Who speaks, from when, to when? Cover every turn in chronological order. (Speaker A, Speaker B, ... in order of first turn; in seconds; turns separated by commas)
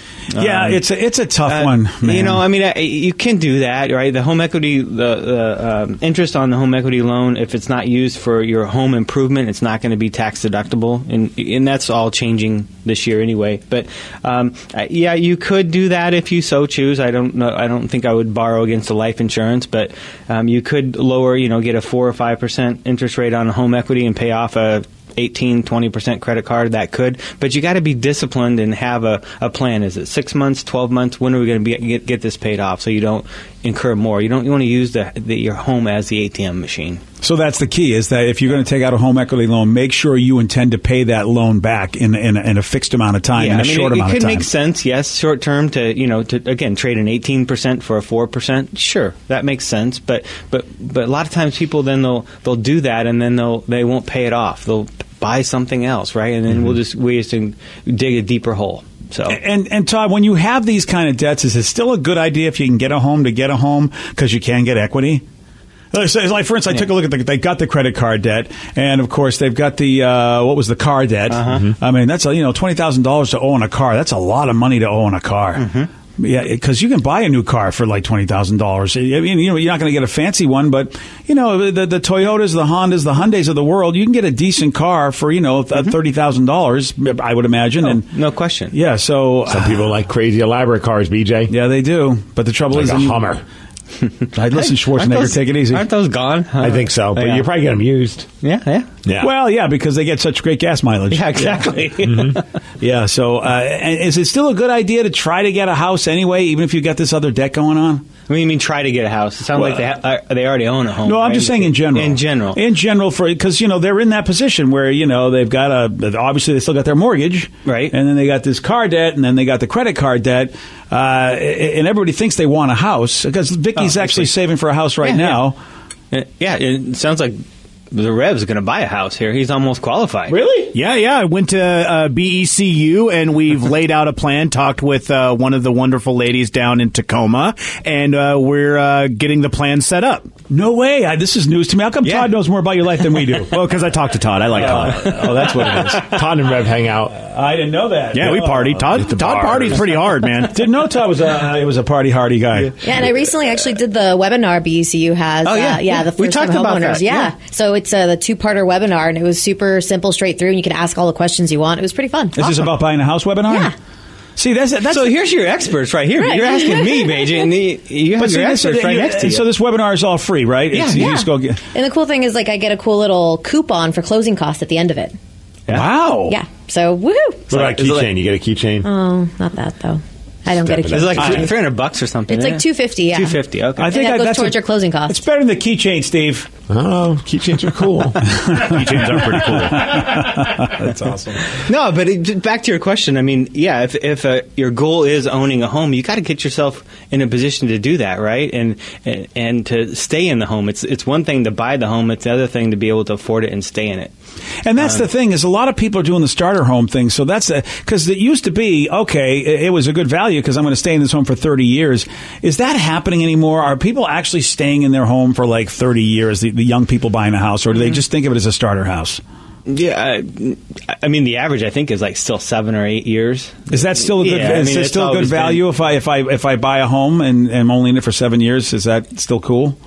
Speaker A: 0.3-0.9, Speaker B: 0.4-2.4, Speaker A: 1.4-37.0, Speaker B: 37.2-44.5, Speaker A: 43.3-59.4, Speaker B: 59.3-65.2, Speaker B: 65.9-75.7, Speaker A: 71.3-71.7, Speaker A: 75.5-75.9, Speaker B: 76.2-88.1, Speaker A: 87.8-88.8, Speaker B: 88.7-89.9, Speaker C: 89.5-91.5, Speaker B: 91.5-93.2, Speaker C: 92.7-93.4, Speaker A: 94.0-97.5, Speaker B: 94.3-95.9, Speaker C: 96.6-98.3, Speaker A: 98.4-98.9, Speaker C: 99.0-99.3, Speaker B: 99.2-101.7, Speaker A: 101.1-102.4, Speaker B: 102.8-108.0, Speaker A: 108.3-112.6, Speaker B: 109.5-109.9, Speaker B: 111.0-125.6, Speaker A: 117.7-118.0, Speaker A: 123.8-124.3, Speaker A: 125.0-125.5, Speaker A: 126.1-127.4, Speaker A: 127.9-130.4, Speaker B: 130.3-130.8, Speaker D: 130.7-140.3, Speaker B: 140.5-143.6, Speaker A: 142.0-142.3, Speaker D: 143.4-145.2, Speaker B: 144.6-146.2, Speaker C: 145.9-147.2, Speaker B: 147.2-149.3, Speaker D: 148.1-150.6, Speaker C: 149.1-149.8, Speaker B: 150.5-153.1, Speaker E: 152.8-162.6, Speaker A: 155.4-157.3, Speaker B: 162.4-163.7, Speaker E: 163.4-163.8, Speaker B: 164.4-165.2, Speaker A: 164.9-169.5, Speaker E: 166.2-167.5, Speaker B: 168.2-171.6, Speaker A: 170.7-171.1, Speaker E: 170.9-175.2, Speaker A: 175.7-176.0, Speaker B: 175.7-176.4, Speaker E: 176.2-177.5, Speaker C: 177.5-178.9, Speaker A: 177.5-178.1, Speaker E: 178.8-181.5, Speaker C: 180.5-181.5, Speaker A: 180.9-183.9, Speaker E: 182.3-185.3, Speaker B: 183.8-186.5, Speaker C: 186.7-188.2, Speaker B: 188.5-191.5, Speaker D: 188.6-189.9, Speaker A: 191.6-204.1, Speaker B: 204.7-219.2, Speaker A: 204.8-205.1, Speaker A: 217.7-218.0, Speaker A: 219.7-225.7, Speaker B: 223.7-229.8